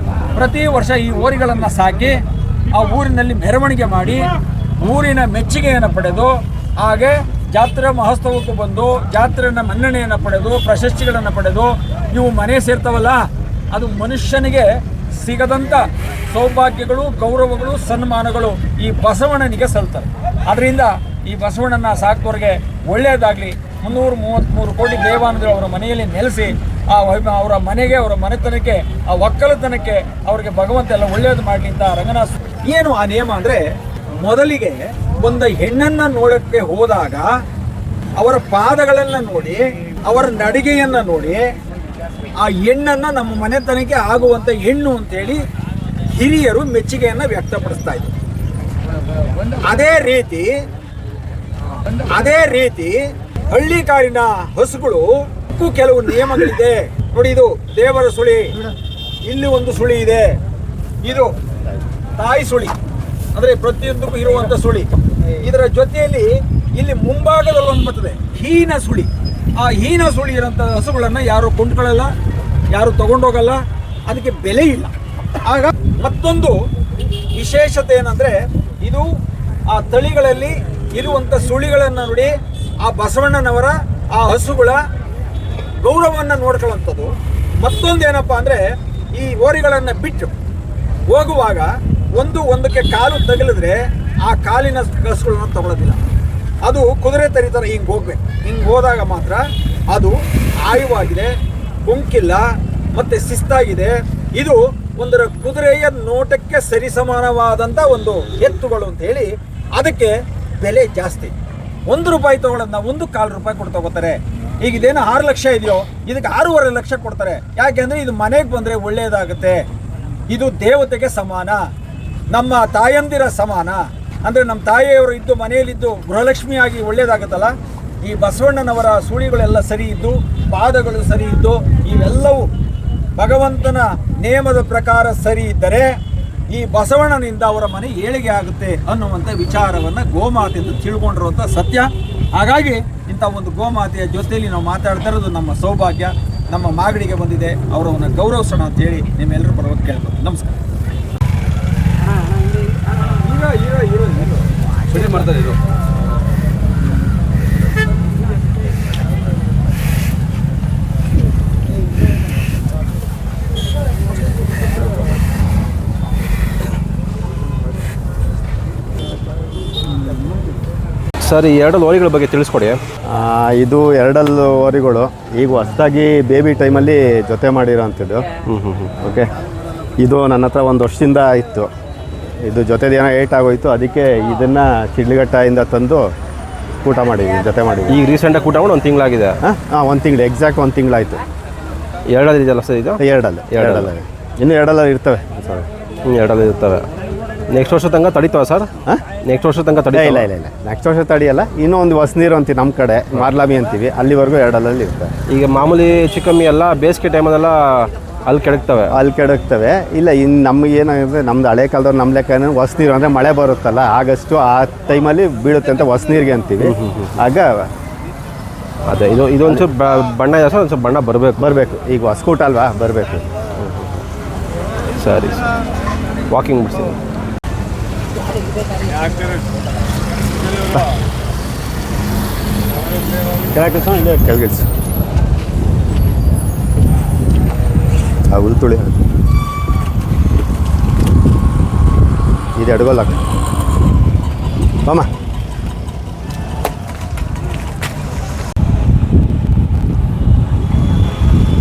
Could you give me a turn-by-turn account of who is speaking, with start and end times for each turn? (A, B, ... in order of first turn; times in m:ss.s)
0:00.3-0:37.3 A
0:38.2-0:41.5 A
0:42.4-0:45.4 A
0:46.0-0:48.1 A
0:49.5-0:50.6 A
0:51.9-0:58.6 A
0:59.2-1:00.4 A
1:01.0-1:01.3 A
1:02.2-1:02.8 A
1:03.3-1:12.1 A
1:12.7-1:16.6 A
1:17.3-1:19.1 A
1:19.7-1:24.8 A
1:25.8-1:30.4 A
1:31.1-1:36.0 A
1:36.6-1:41.3 A
1:41.8-1:51.3 A
1:51.9-1:59.6 A
2:00.3-2:01.6 A
2:02.3-2:12.5 A
2:13.2-2:16.0 A
2:16.5-2:30.6 A
2:32.9-2:35.6 A
2:51.2-2:52.8 B
2:53.1-2:58.3 C
2:58.5-2:58.9 B
2:59.0-2:59.3 C
3:00.0-3:01.7 C
3:02.4-3:06.1 C
3:06.8-3:08.0 C
3:07.9-3:09.4 B
3:09.4-3:11.2 C
3:12.1-3:13.9 B
3:13.0-3:15.7 C
3:16.1-3:16.8 B
3:17.5-3:18.7 B
3:19.2-3:20.3 B
3:19.9-3:25.1 C
3:25.3-3:28.9 B
3:28.9-3:37.7 C
3:36.6-3:37.2 B
3:38.9-3:41.5 B
3:41.4-3:43.3 C
3:43.6-3:44.0 B
3:45.0-3:45.4 B
3:46.3-3:47.0 B
3:53.5-3:54.7 C
3:58.3-3:59.0 C
4:02.6-4:03.2 C
4:04.8-4:05.1 C